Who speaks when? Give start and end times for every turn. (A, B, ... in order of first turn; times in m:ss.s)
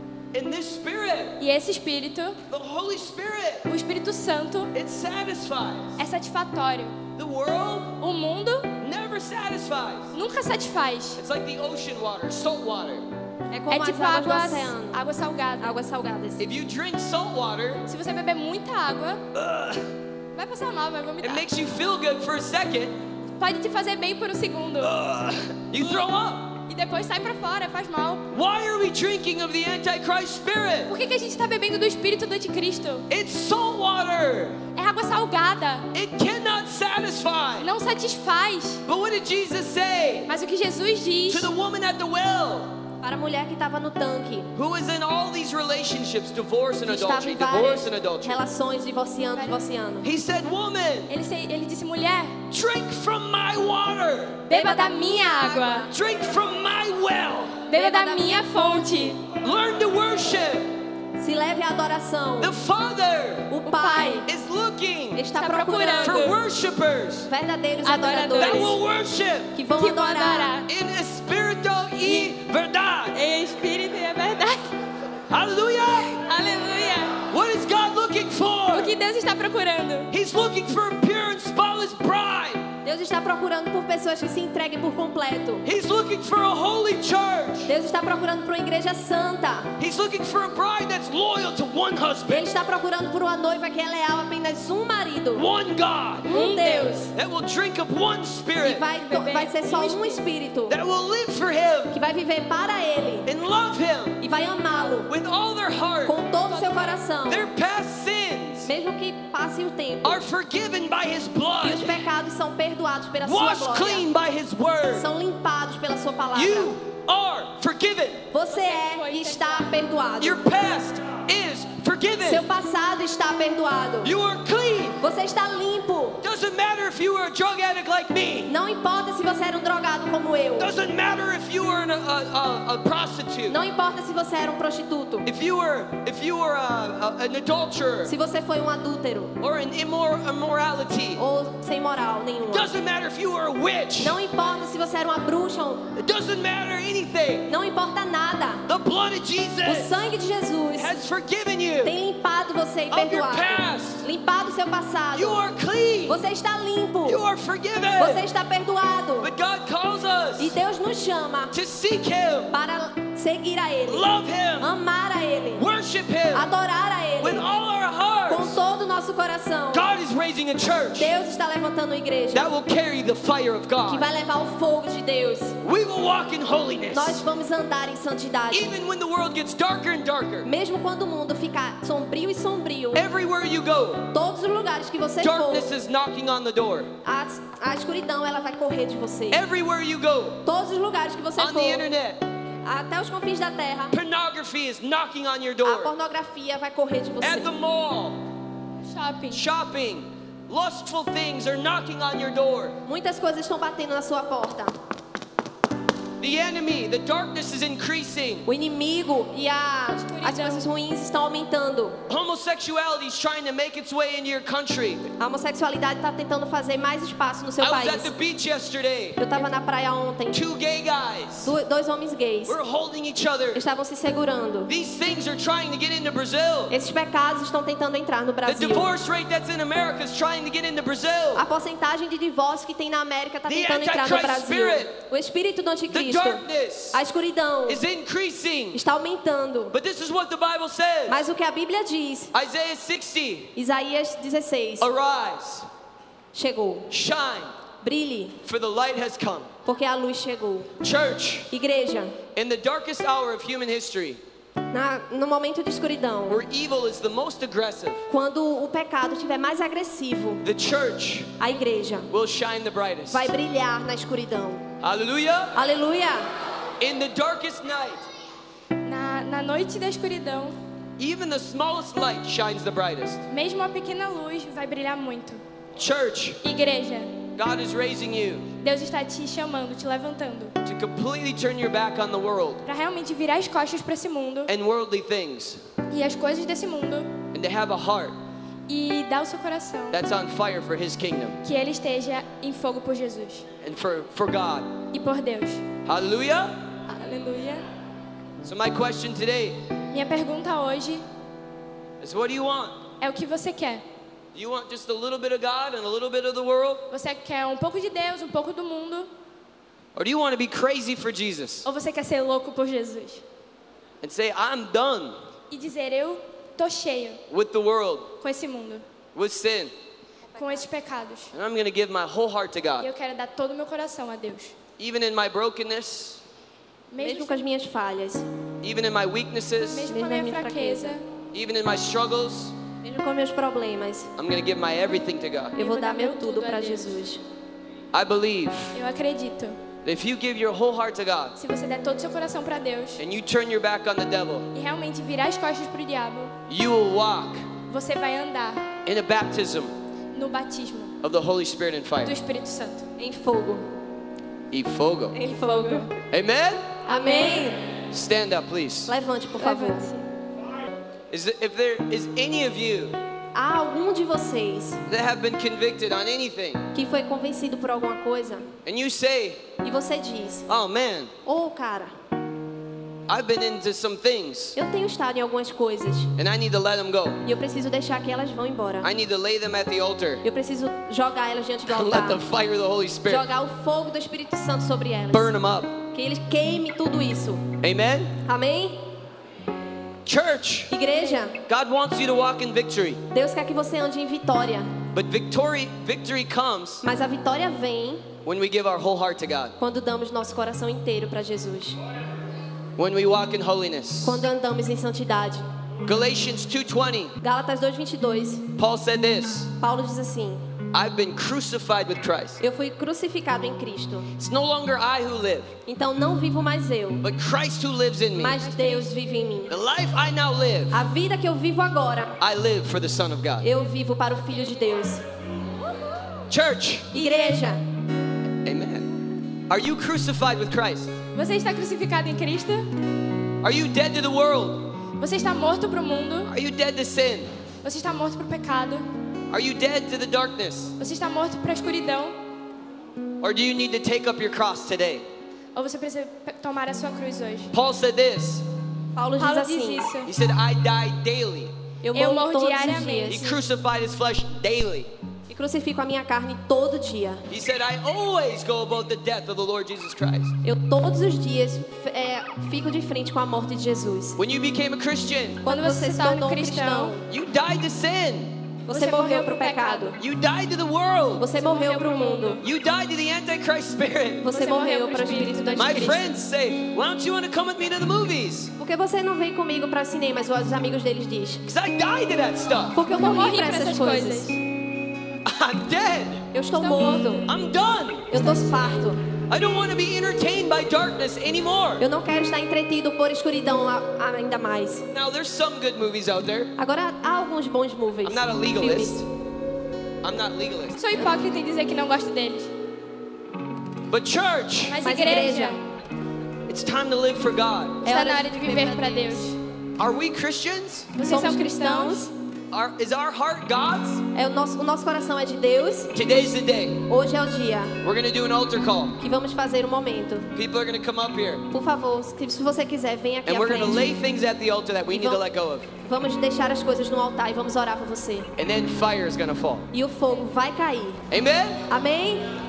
0:00.3-0:01.4 A
0:01.4-0:02.4 B
0:02.5-0:03.7 A
0:03.7-0:04.7 B
0:04.7-0:06.0 A
0:06.0-0:07.0 B
0:07.2-0:08.0 A
0:08.0-0:08.7 B
0:08.8-0:10.1 A
0:10.1-0:11.2 B
0:11.2-0:13.1 A
0:13.5-0:15.0 C
0:13.7-0:15.8 B
0:15.6-0:16.4 C
0:16.4-0:17.9 A
0:17.9-0:19.2 B
0:19.3-0:19.9 A
0:20.4-0:21.5 B
0:21.2-0:23.0 A
0:23.4-0:25.0 B
0:24.8-0:26.6 A
0:26.7-0:28.2 B
0:28.3-0:31.0 A
0:30.9-0:33.1 B
0:33.1-0:34.6 A
0:34.8-0:35.9 B
0:35.9-0:37.7 A
0:37.6-0:38.8 B
0:38.8-0:40.3 A
0:40.3-0:41.5 B
0:41.3-0:42.7 A
0:43.0-0:44.5 C
0:44.5-0:48.4 A
0:46.9-0:50.1 C
0:50.0-0:51.1 A
0:51.1-0:52.4 B
0:52.5-0:54.4 A
0:54.5-0:55.9 B
0:54.5-0:55.9 C
0:55.9-0:57.6 A
0:57.7-0:59.2 B
0:57.7-0:59.1 C
0:59.4-1:00.7 A
1:01.2-1:02.6 C
1:02.4-1:03.5 A
1:03.5-1:04.3 C
1:03.7-1:04.3 B
1:04.3-1:05.2 A
1:05.2-1:06.2 C
1:05.4-1:06.4 B
1:06.0-1:07.3 A
1:07.3-1:08.8 C
1:07.8-1:08.8 B
1:08.4-1:09.6 A
1:09.5-1:10.6 C
1:09.8-1:10.7 B
1:10.7-1:13.2 A
1:13.1-1:14.7 B
1:15.3-1:16.3 A
1:16.3-1:17.2 B
1:17.3-1:18.9 A
1:18.7-1:20.1 B
1:20.1-1:22.7 A
1:22.8-1:25.6 C
1:25.6-1:27.7 A
1:27.7-1:29.7 C
1:29.8-1:32.5 A
1:32.3-1:35.5 C
1:35.3-1:36.3 A
1:36.3-1:37.1 C
1:36.3-1:37.1 B
1:37.1-1:38.9 A
1:38.6-1:40.8 C
1:39.0-1:40.2 B
1:40.7-1:42.0 A
1:41.9-1:43.3 C
1:43.3-1:44.2 A
1:44.2-1:45.1 C
1:45.1-1:46.2 A
1:46.0-1:47.5 C
1:46.4-1:47.0 B
1:47.3-1:48.7 A
1:48.6-1:50.2 C
1:50.0-1:52.0 A
1:51.6-1:54.1 C
1:53.2-1:55.1 A
1:54.9-1:56.7 C
1:56.4-1:58.3 A
1:58.3-2:00.4 C
1:58.5-1:59.7 B
2:00.2-2:02.5 A
2:02.2-2:04.1 C
2:04.0-2:05.0 A
2:05.0-2:06.2 C
2:06.2-2:08.5 A
2:08.5-2:10.7 C
2:10.6-2:13.6 A
2:13.5-2:15.3 C
2:15.2-2:18.1 A
2:18.0-2:19.4 C
2:19.4-2:21.2 A
2:21.2-2:22.8 C
2:22.5-2:24.2 A
2:24.0-2:25.9 C
2:25.9-2:27.5 A
2:27.5-2:28.6 C
2:28.7-2:30.0 A
2:29.6-2:31.0 C
2:30.8-2:32.0 A
2:31.8-2:35.4 C
2:32.9-2:34.0 A
2:35.1-2:36.2 A
2:36.1-2:37.2 C
2:37.0-2:38.3 A
2:38.0-2:39.3 C
2:39.2-2:40.6 A
2:40.4-2:41.6 C
2:41.5-2:42.6 A
2:42.5-2:44.1 C
2:43.9-2:44.7 A
2:44.6-2:45.6 C
2:45.5-2:46.5 A
2:46.3-2:47.4 C
2:47.2-2:48.6 A
2:48.3-2:49.9 C
2:49.7-2:51.1 A
2:51.0-2:52.5 C
2:52.3-2:54.1 A
2:53.9-2:55.6 C
2:55.6-2:57.2 A
2:56.9-2:58.8 C
2:58.5-3:00.5 A
3:00.4-3:03.1 C
3:02.9-3:04.1 A
3:04.1-3:05.7 C
3:05.2-3:06.9 A
3:07.0-3:09.4 C
3:09.3-3:10.4 A
3:10.4-3:11.9 C
3:11.4-3:12.2 A
3:12.6-3:14.0 C
3:13.9-3:15.9 A
3:15.6-3:17.5 C
3:17.2-3:18.2 A
3:18.9-3:19.4 B
3:19.3-3:22.8 A
3:22.8-3:24.7 C
3:26.2-3:28.5 A
3:28.5-3:32.0 C
3:30.0-3:30.7 B
3:32.1-3:35.1 A
3:35.2-3:38.1 C
3:37.6-3:39.2 A
3:39.2-3:40.4 C
3:40.3-3:41.5 A
3:41.4-3:42.6 C
3:42.5-3:43.6 A
3:43.6-3:44.7 C
3:44.7-3:46.8 A
3:46.7-3:48.9 C
3:48.5-3:51.5 A
3:51.4-3:57.8 C
3:53.5-3:55.0 A
3:55.9-3:57.0 A
3:57.7-3:58.8 A
3:58.7-3:59.8 C
3:59.7-4:01.2 A
4:01.1-4:02.3 C
4:02.3-4:03.5 A
4:03.6-4:04.9 C
4:04.8-4:05.7 A
4:06.3-4:06.9 C
4:06.9-4:07.5 A
4:07.8-4:08.4 C
4:08.4-4:09.5 A
4:09.6-4:10.7 C
4:10.8-4:11.5 A
4:11.5-4:12.2 C
4:12.4-4:14.2 A
4:14.7-4:16.4 C
4:16.3-4:18.1 A
4:18.1-4:20.4 C
4:20.4-4:21.3 A
4:21.4-4:22.1 C
4:22.1-4:23.3 A
4:23.1-4:24.7 C
4:24.8-4:25.6 A
4:25.6-4:26.3 C
4:26.8-4:28.1 A
4:28.8-4:30.6 B
4:31.0-4:33.2 A
4:33.3-4:35.4 B
4:35.8-4:36.4 A
4:36.4-4:37.2 B
4:37.4-4:38.5 A
4:38.6-4:40.6 B
4:40.6-4:42.6 A
4:42.7-4:44.5 B
4:44.5-4:45.6 A
4:45.9-4:47.1 B
4:47.3-4:48.2 A
4:48.7-4:50.0 B
4:49.9-4:51.4 A
4:51.4-4:53.4 B
4:53.6-4:54.8 A
4:54.9-4:55.6 B
4:55.9-4:56.6 A
4:56.9-4:57.6 B
4:58.4-4:59.6 A
4:59.9-5:01.0 B
5:02.0-5:02.8 A
5:03.0-5:03.8 B
5:04.4-5:06.9 A
5:06.9-5:09.1 B
5:10.0-5:11.7 A
5:11.6-5:13.2 B
5:14.0-5:15.2 A
5:15.5-5:17.2 B
5:17.3-5:18.1 A
5:18.2-5:18.8 B
5:19.2-5:19.7 A
5:20.4-5:21.3 B
5:20.4-5:20.6 C
5:21.3-5:22.9 A
5:22.8-5:24.6 B
5:24.8-5:26.2 A
5:26.9-5:27.4 B
5:27.0-5:28.2 C
5:28.6-5:29.9 A
5:29.6-5:31.0 B
5:29.8-5:31.0 C
5:31.3-5:32.6 A
5:32.8-5:34.1 C
5:34.2-5:35.6 A
5:35.6-5:37.0 B
5:35.6-5:37.2 C
5:37.9-5:38.8 A
5:38.8-5:39.6 B
5:39.8-5:41.4 A
5:41.4-5:43.0 B
5:43.0-5:44.5 A
5:44.5-5:46.3 B
5:46.5-5:47.5 A
5:47.7-5:48.6 B
5:48.8-5:49.7 A
5:50.1-5:50.9 B
5:51.0-5:52.1 A
5:52.0-5:52.9 B
5:53.0-5:53.7 C
5:54.5-5:55.2 A
5:55.1-5:55.9 C
5:55.2-5:55.9 B
5:56.1-5:56.7 A
5:56.9-5:57.5 B
5:56.9-5:57.6 C
5:57.9-5:58.9 A
5:58.9-5:59.9 C
5:59.4-6:00.1 B
6:01.1-6:03.0 A
6:03.3-6:04.8 C
6:04.9-6:06.7 A
6:06.7-6:08.5 C
6:08.7-6:09.5 A
6:09.6-6:10.5 C
6:10.5-6:11.1 A
6:11.2-6:11.9 C
6:13.1-6:14.6 A
6:14.6-6:16.1 C
6:16.2-6:17.2 A
6:17.2-6:18.9 C
6:18.8-6:20.2 A
6:20.2-6:22.2 C
6:21.7-6:23.3 A
6:23.1-6:25.3 C
6:25.1-6:25.8 A
6:25.9-6:27.5 C
6:27.6-6:28.2 A
6:28.2-6:28.8 C
6:30.0-6:30.7 A
6:30.7-6:31.4 C
6:31.4-6:33.0 A
6:33.1-6:34.7 C
6:34.9-6:36.8 A
6:36.8-6:38.1 C
6:38.2-6:39.6 A
6:39.6-6:41.8 C
6:42.8-6:44.2 A
6:44.0-6:45.4 C
6:45.9-6:47.2 A
6:47.2-6:48.5 C
6:48.6-6:49.5 A
6:49.6-6:50.4 C
6:50.7-6:52.4 A
6:52.4-6:54.1 C
6:54.2-6:55.5 A
6:55.7-6:57.0 C
6:57.0-6:58.4 A
6:58.2-6:59.6 C
6:58.4-6:58.9 B
6:59.5-7:00.8 A
7:00.7-7:02.2 C
7:02.2-7:03.5 A
7:03.4-7:05.0 C
7:06.3-7:06.9 A
7:06.9-7:07.6 C
7:07.0-7:07.5 B
7:08.4-7:08.9 A
7:09.5-7:11.0 A
7:11.1-7:12.7 B
7:13.4-7:14.7 A
7:15.0-7:16.3 B
7:16.3-7:17.3 A
7:17.6-7:18.9 B
7:19.3-7:20.7 A
7:20.8-7:22.2 B
7:23.2-7:25.0 A
7:25.6-7:27.5 B
7:27.5-7:28.4 A
7:29.0-7:29.9 C
7:29.2-7:30.1 B
7:30.0-7:31.5 A
7:31.8-7:33.3 C
7:31.9-7:33.3 B
7:33.1-7:34.9 A
7:35.3-7:37.2 C
7:37.3-7:40.4 A
7:40.4-7:44.2 C
7:44.2-7:45.4 A
7:45.4-7:47.0 C
7:45.5-7:47.0 B
7:47.1-7:48.3 A
7:48.7-7:50.0 C
7:48.7-7:50.0 B
7:50.0-7:51.3 A
7:51.2-7:52.4 C
7:51.3-7:52.4 B
7:52.4-7:54.3 A
7:54.2-7:56.0 C
7:54.3-7:56.0 B
7:55.6-7:58.5 A
7:58.6-8:01.4 C
8:01.5-8:02.8 A
8:02.7-8:04.3 C
8:02.9-8:04.4 B
8:05.2-8:06.3 A
8:06.3-8:07.2 C
8:06.6-8:07.3 B
8:07.2-8:08.1 A
8:08.1-8:09.0 C
8:09.3-8:11.8 A
8:11.8-8:14.9 C
8:14.9-8:16.5 A
8:16.6-8:19.0 C
8:18.0-8:19.1 A
8:20.0-8:20.8 A
8:20.8-8:22.5 B
8:23.9-8:24.8 A
8:24.7-8:25.6 B
8:24.8-8:25.6 C
8:26.5-8:27.8 A
8:27.8-8:29.3 C
8:27.8-8:29.4 B
8:29.8-8:30.9 A
8:31.0-8:32.1 B
8:31.0-8:32.1 C
8:32.5-8:34.0 A
8:34.1-8:35.9 C
8:35.9-8:36.8 A
8:36.9-8:37.8 C
8:37.8-8:39.0 A
8:39.0-8:40.3 C
8:40.4-8:41.5 A
8:41.5-8:44.0 C
8:43.3-8:45.7 A
8:44.9-8:45.2 C
8:45.8-8:48.3 C
8:48.4-8:49.7 A
8:49.7-8:51.0 C
8:51.1-8:51.7 A
8:51.7-8:52.3 C